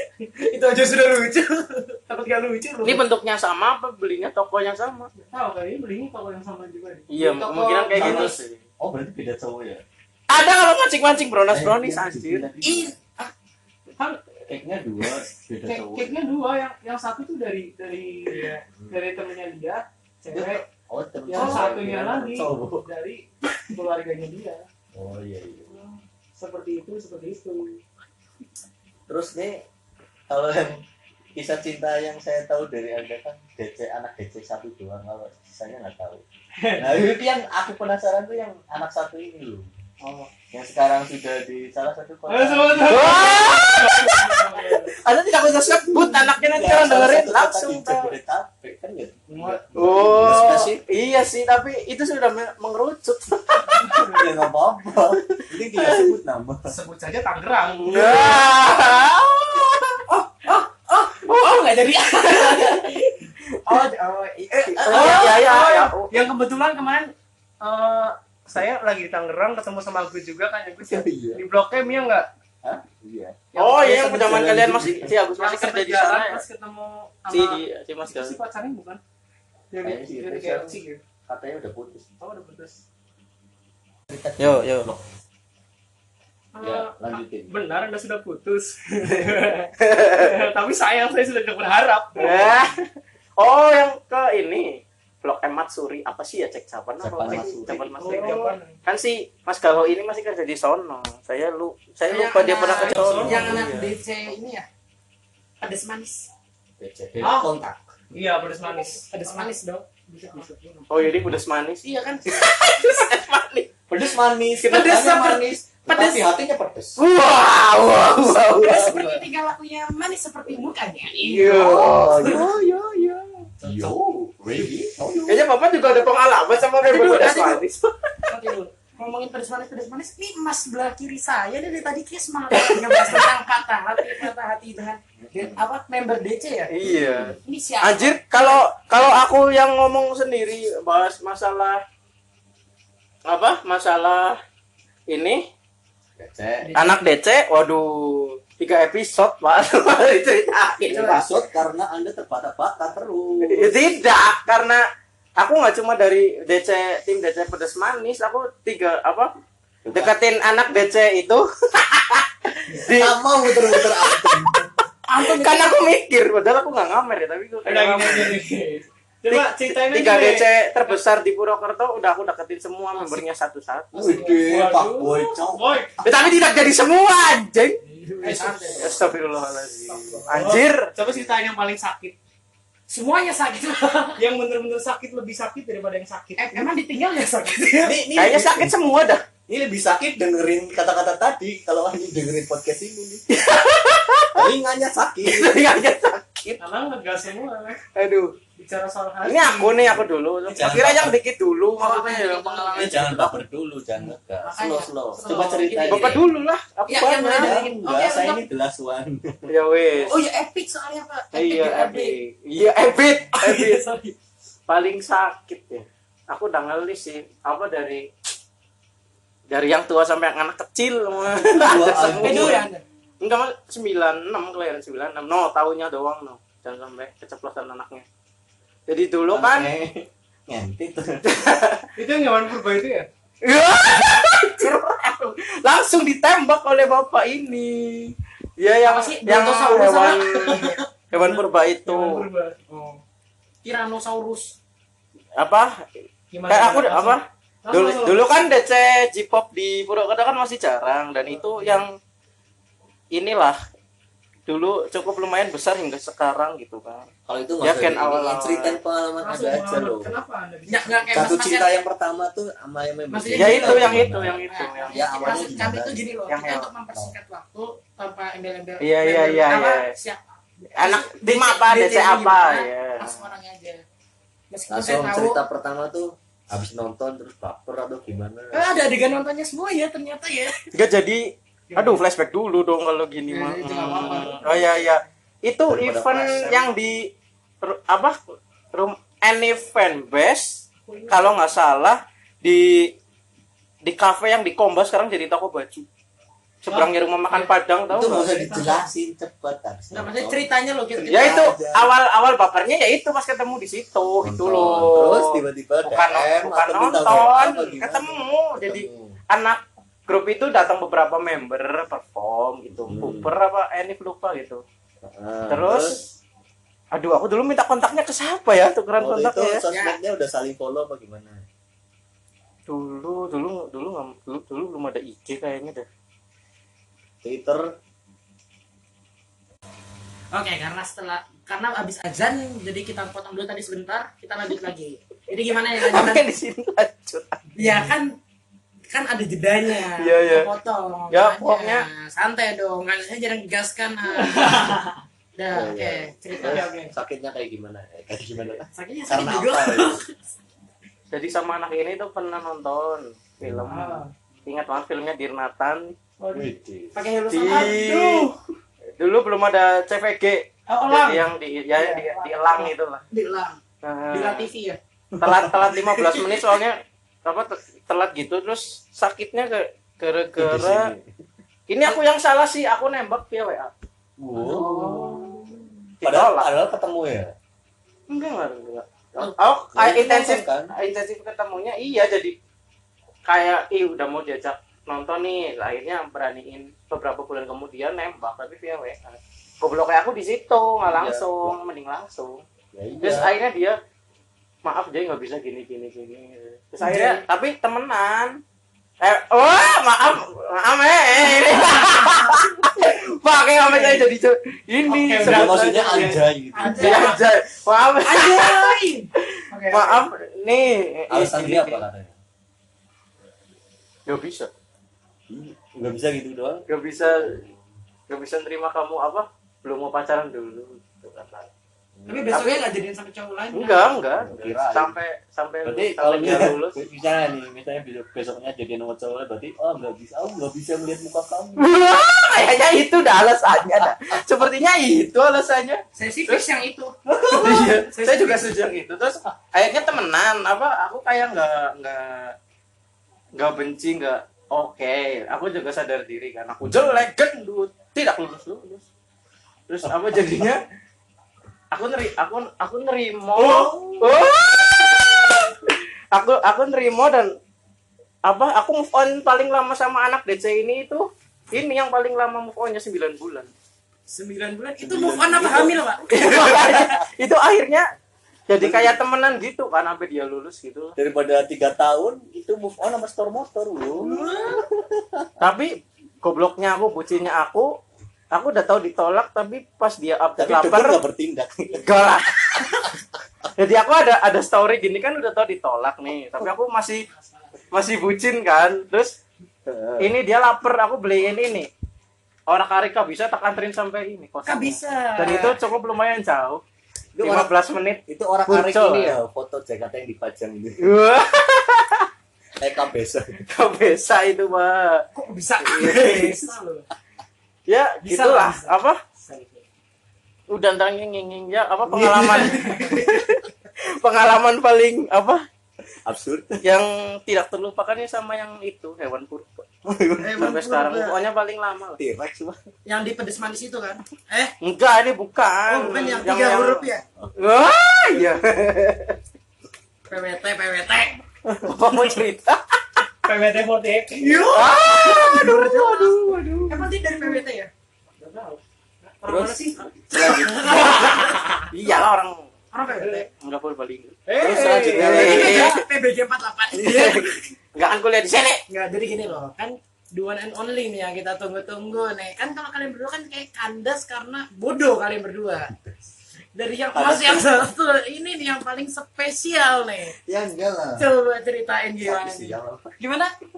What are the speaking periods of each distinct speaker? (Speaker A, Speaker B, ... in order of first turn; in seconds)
Speaker A: 0.4-2.9, 7.2-8.4, 12.6-13.3, 21.4-21.7, 60.4-63.0, 63.7-65.5, 98.0-98.5, 102.1-104.7, 105.6-106.3, 108.6-110.5, 111.8-112.5, 114.6-116.3, 118.5-122.3, 126.8-127.6, 128.3-136.7, 137.4-138.7, 146.6-147.0, 150.9-151.2, 165.1-165.8, 174.0-174.4, 178.2-179.0, 182.9-184.2, 186.4-188.0, 201.8-203.1, 204.4-206.2, 206.9-208.4, 210.1-212.2, 213.3-214.1, 222.2-222.8, 238.8-240.8, 243.6-244.6, 246.3-247.1, 260.7-261.7, 263.1-273.8, 274.5-275.4, 278.5-280.6, 281.7-282.0, 283.3-284.7, 290.9-291.3, 296.7-298.9, 299.9-301.5, 319.7-320.0, 330.3-336.2, 337.6-338.2, 338.9-344.8, 345.4-346.7, 348.7-350.1, 356.9-358.4, 360.7-361.2, 361.8-363.6, 364.1-364.8, 374.4-375.6, 396.8-397.2, 401.4-402.2, 403.7-404.0, 406.5-407.2, 408.0-410.1, 422.1-423.9, 435.9-438.4, 453.5-453.8, 464.1-466.7, 473.9-474.6, 487.1-487.7, 494.4-495.6, 505.1-506.8, 508.0-508.8, 512.3-513.0, 520.2-521.2, 522.9-524.5, 525.7-527.0, 530.1-531.2, 533.2-537.7, 540.2-541.7, 542.7-543.3, 545.0-547.4, 548.7-555.7, 556.5-560.2, 561.0-563.3
Speaker B: 2.1-3.0, 5.2-8.3, 14.0-14.2, 15.6-20.6, 21.3-24.7, 25.7-27.8, 36.6-37.1, 40.0-40.3, 42.3-44.9, 49.3-50.6, 53.7-54.2, 56.7-58.7, 64.9-72.3, 73.5-74.5, 75.3-79.0, 79.7-81.0, 82.2-82.8, 86.5-92.6, 97.2-98.8, 102.7-103.6, 107.2-107.5, 108.1-109.5, 110.2-110.9, 167.7-171.0, 173.9-176.0, 177.8-178.8, 179.9-182.2, 184.2-186.7, 196.6-197.8, 198.6-200.0, 232.0-233.1, 241.2-243.0, 246.4-248.3, 251.3-251.8, 259.2-261.3, 344.2-344.9, 346.4-346.9, 353.7-354.1, 360.7-361.1, 374.4-375.5, 404.9-407.0, 506.0-506.6, 509.3-509.6, 512.0-513.0, 533.3-534.5, 538.2-540.9, 542.9-543.2, 544.3-545.4
Speaker C: 2.8-5.1, 7.1-8.6, 10.3-12.5, 42.8-48.1, 49.8-54.2, 55.8-56.2, 57.8-60.2, 61.3-62.9, 64.6-66.3, 73.6-76.4, 77.3-78.4, 84.4-84.9, 89.8-90.4, 92.2-92.8, 93.4-103.7, 110.9-113.7, 117.0-119.1, 121.2-123.5, 125.3-127.9, 132.5-133.3, 136.7-141.8, 143.3-144.4, 145.1-145.4, 146.8-151.3, 153.4-154.8, 155.4-159.3, 159.9-164.5, 165.2-168.4, 169.3-173.9, 176.0-177.8, 178.8-180.9, 188.2-189.2, 193.3-194.5, 195.2-196.6, 197.9-198.4, 199.2-203.4, 205.9-207.6, 209.5-210.2, 211.3-213.8, 214.7-218.1, 219.5-222.7, 223.2-228.1, 228.9-229.7, 231.2-231.9, 233.4-242.2, 245.4-245.8, 246.5-251.9, 253.1-253.6, 254.5-257.1, 257.6-258.8, 263.3-265.5, 266.3-266.7, 268.8-269.9, 270.8-273.3, 280.7-287.1, 287.6-292.9, 293.8-295.9, 296.6-298.3, 301.1-314.6, 315.5-316.0, 316.9-319.6, 322.7-325.9, 335.8-337.4, 339.7-340.5, 341.1-341.9, 351.1-353.9, 354.5-355.9, 357.3-358.3, 359.0-363.0, 363.8-364.5, 365.2-370.9, 371.7-373.7, 376.0-376.5, 378.1-382.4, 383.3-392.4, 393.0-393.8, 394.6-398.4, 399.0-405.9, 406.7-411.8, 414.1-414.5, 416.7-417.4, 418.1-421.5, 422.3-422.6, 423.5-426.8, 431.6-436.4, 437.3-442.4, 443.4-448.8, 449.7-450.6, 451.7-457.3, 458.2-463.5, 466.1-467.9, 468.5-471.0, 475.4-477.8, 478.3-481.0, 481.7-482.9, 483.6-487.1, 487.7-489.1, 490.0-491.7, 492.5-496.6, 497.2-499.2, 500.8-502.1, 503.5-505.1, 505.6-506.4, 507.7-509.0, 510.5-513.5, 514.0-515.4, 516.6-519.7, 520.4-522.0, 524.6-529.2, 531.5-533.0, 534.3-536.9, 539.2-542.5, 543.3-545.8, 546.7-548.6
Speaker D: 7.9-9.8, 11.5-13.0, 14.5-16.1, 18.7-19.0, 20.3-22.9, 24.9-25.8, 29.1-29.6, 30.3-30.8, 31.4-36.2, 36.8-39.7, 40.5-43.5, 46.4-50.8, 54.0-56.7, 64.6-65.2, 70.8-71.4, 72.6-73.4, 74.1-75.1, 79.8-82.1, 84.1-85.1, 86.6-87.5, 97.0-98.0, 103.1-103.9, 106.8-107.8, 113.9-117.0, 118.7-119.2, 121.5-122.7, 123.6-125.5, 135.2-135.6, 136.8-137.4, 146.2-146.7, 150.9-153.8, 159.8-160.1, 162.9-164.7, 173.9-175.8, 178.7-179.1, 187.8-188.8, 189.5-193.2, 194.3-195.6, 200.5-201.2, 202.8-206.2, 207.3-209.5, 221.5-222.6, 229.3-231.2, 257.3-260.2, 261.1-266.1, 274.7-278.8, 285.7-286.7, 297.9-301.9, 304.2-309.2, 312.8-313.3, 315.0-316.0, 319.0-321.4, 327.2-327.7, 345.5-350.0, 353.4-354.0, 356.3-357.0, 365.1-365.8, 370.4-371.1, 374.2-375.0, 376.0-377.3, 379.7-380.7, 390.8-391.6, 392.7-393.3, 405.2-407.1, 411.1-412.1, 415.3-417.6, 422.0-422.4, 424.1-425.0, 425.6-431.7, 437.1-437.6, 446.6-447.0, 449.9-450.4, 464.8-466.9, 468.6-469.0, 471.0-475.3, 480.4-482.1, 489.7-490.1, 497.1-497.5, 498.1-500.9, 502.6-503.4, 516.0-516.7, 519.9-520.6, 522.0-522.6, 544.4-545.8, 556.9-557.6, 560.3-561.1, 562.0-562.9